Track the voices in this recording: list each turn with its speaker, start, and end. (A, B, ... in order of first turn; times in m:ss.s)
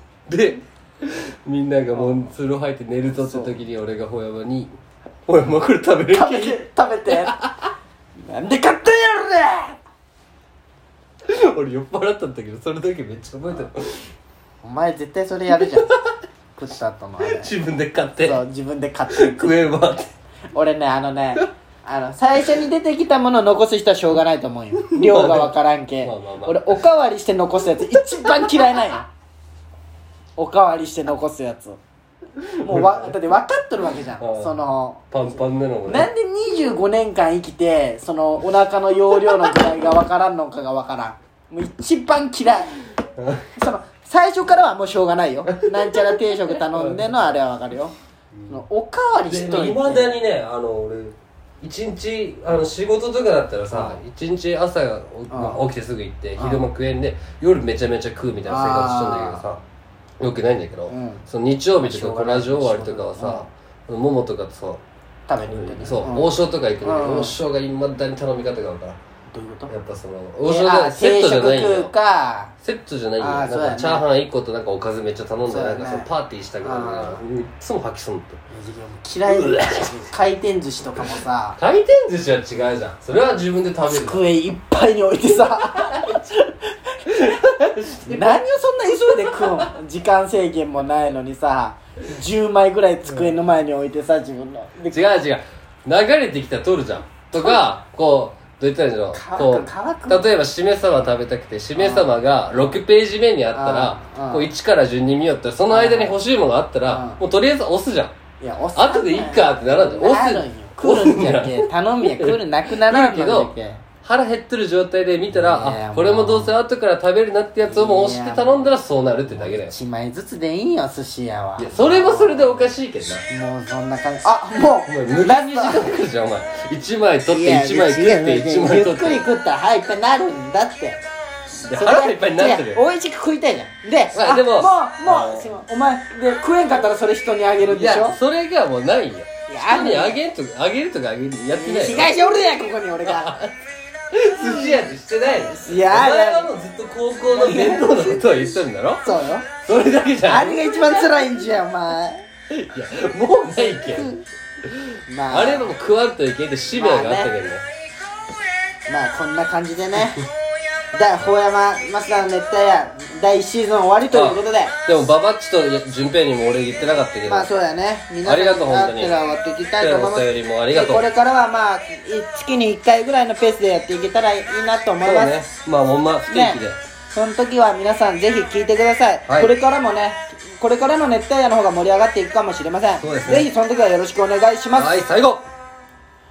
0:00.3-0:07.7 A
0:01.9-0:02.3 B
0:03.1-0:03.6 B
0:06.1-0:07.4 B
0:08.2-0:09.8 B
0:11.3-0:14.1 A
0:14.6-0:15.9 B
0:15.7-0:16.1 A
0:16.6-0:17.5 B
0:17.2-0:18.4 A
0:18.2-0:19.6 B
0:19.1-0:20.1 A
0:20.5-0:29.1 B
0:24.9-0:26.8 A
0:30.4-0:31.8 B
0:32.5-0:33.1 A
0:32.6-0:35.0 B
0:34.2-0:34.6 A
0:35.1-0:36.1 A
0:35.9-0:42.8 B
0:43.2-0:43.5 A
0:43.6-0:47.9 B
0:45.6-0:47.3 A
0:48.5-0:50.2 B
0:49.3-0:59.6 A
0:53.7-0:54.0 B
0:55.3-0:55.6 B
0:56.4-0:56.7 B
0:58.5-0:59.4 B
1:00.2-1:04.8 A
1:00.9-1:01.2 B
1:01.8-1:03.5 B
1:05.3-1:07.4 B
1:05.4-1:09.0 A
1:09.3-1:09.7 B
1:09.7-1:11.9 A
1:10.4-1:12.6 B
1:12.6-1:18.4 A
1:13.2-1:14.1 B
1:15.4-1:16.1 B
1:16.6-1:17.2 B
1:18.5-1:21.6 B
1:19.3-1:20.0 A
1:21.6-1:24.2 A
1:23.9-1:35.0 B
1:25.4-1:26.2 A
1:27.1-1:28.4 A
1:29.1-1:29.7 A
1:34.9-1:48.2 A
1:39.1-1:40.3 B
1:41.8-1:42.1 B
1:43.5-1:44.5 B
1:45.7-1:46.2 B
1:46.8-1:47.2 B
1:48.4-1:53.8 B
1:48.8-1:59.8 A
1:55.3-1:56.6 B
1:57.6-1:58.7 B
1:59.3-2:05.9 B
2:01.6-2:03.2 A
2:04.9-2:09.3 A
2:07.3-2:11.0 B
2:11.6-2:18.2 B
2:11.7-2:12.8 A
2:14.1-2:15.6 A
2:17.6-2:22.1 A
2:19.5-2:20.2 B
2:21.5-2:23.4 B
2:23.1-2:23.5 A
2:24.1-2:29.1 A
2:24.5-2:24.8 B
2:25.4-2:26.5 B
2:27.2-2:28.3 B
2:29.0-2:29.5 B
2:29.6-2:30.6 A
2:30.2-2:32.2 B
2:32.5-2:37.6 A
2:33.6-2:34.2 B
2:35.1-2:35.8 B
2:36.7-2:37.3 B
2:38.9-2:40.2 B
2:40.9-2:44.8 B
2:44.1-2:47.5 A
2:47.2-2:55.4 B
2:48.2-2:49.2 A
2:49.8-2:51.1 A
2:55.0-2:56.8 A
2:56.3-2:56.6 B
2:57.1-3:05.0 B
2:59.3-2:59.6 A
3:03.0-3:03.5 A
3:04.8-3:05.5 A